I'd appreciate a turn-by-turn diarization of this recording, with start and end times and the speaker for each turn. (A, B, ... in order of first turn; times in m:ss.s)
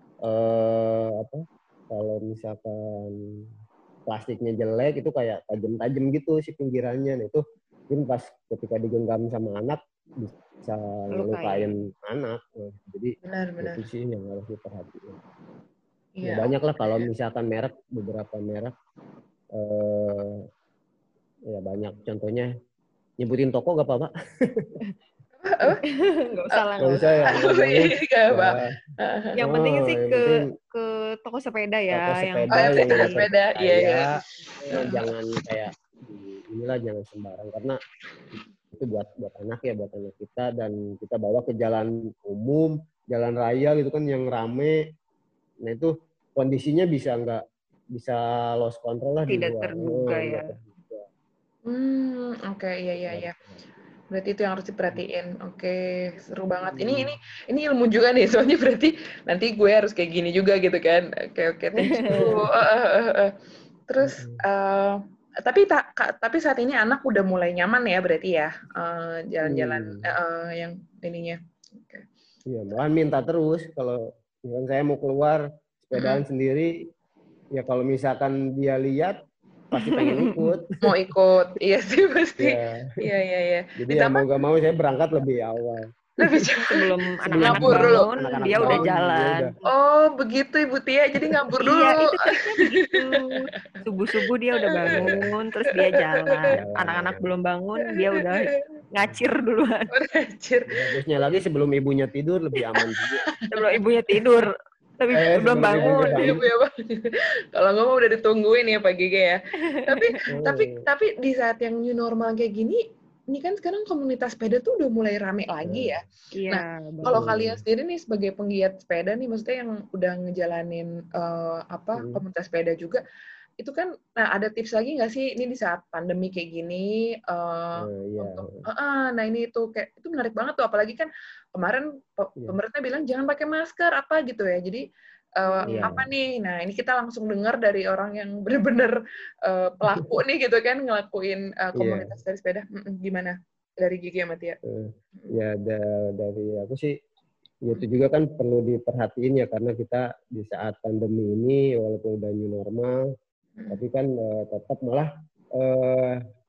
0:00.2-0:03.5 A
0:04.1-0:15.2 A
0:11.1-0:11.8 B
0:13.2-0:13.9 C
0:16.2-0:17.1 C
0:16.2-0:18.7 A
0:19.5-0:20.5 A
0:21.5-0:22.5 A
0:23.2-0:24.7 A
0:25.4-0:25.8 C
0:25.9-0:27.4 B
0:26.8-0:28.7 A
0:27.3-0:29.4 C
0:29.4-0:33.3 B
0:29.4-0:30.4 A
0:31.9-0:37.8 A
0:32.6-0:34.1 C
0:34.7-0:35.1 C
0:38.7-0:44.8 A
0:45.6-0:47.4 A
0:47.9-0:51.1 A
0:49.3-0:50.5 B
0:51.7-0:53.3 C
0:53.1-0:53.6 A
0:54.1-1:03.3 C
0:56.7-0:57.1 A
1:01.8-1:02.3 B
1:02.1-1:02.4 A
1:03.9-1:12.1 C
1:04.0-1:04.4 A
1:09.5-1:10.1 A
1:12.5-1:16.7 A
1:16.0-1:16.2 C
1:17.6-1:19.2 A
1:19.7-1:20.7 A
1:19.8-1:20.6 B
1:20.8-1:24.3 C
1:22.4-1:23.0 A
1:23.8-1:26.5 A
1:26.2-1:26.8 C
1:26.7-1:29.6 B
1:27.3-1:29.5 A
1:27.4-1:28.9 C
1:29.6-1:33.4 C
1:31.6-1:39.9 B
1:34.7-1:35.0 C
1:34.9-1:35.3 A
1:35.8-1:36.5 C
1:36.5-1:37.4 A
1:37.9-1:38.6 C
1:39.9-1:40.9 C
1:40.7-1:43.3 A
1:42.6-1:43.7 C
1:43.5-1:46.4 B
1:45.1-1:46.5 A
1:45.7-2:03.0 C
1:49.7-1:50.2 B
1:50.3-1:50.8 A
1:55.6-1:56.0 A
1:56.4-1:57.3 B
1:57.0-1:57.6 A
2:02.0-2:02.2 A
2:03.6-2:14.8 C
2:07.8-2:08.7 A
2:15.4-2:24.6 C
2:15.4-2:16.0 B
2:15.7-2:16.1 A
2:21.8-2:22.1 A
2:24.7-2:26.9 A
2:27.6-2:33.0 A
2:33.6-2:33.8 C
2:33.7-2:36.2 A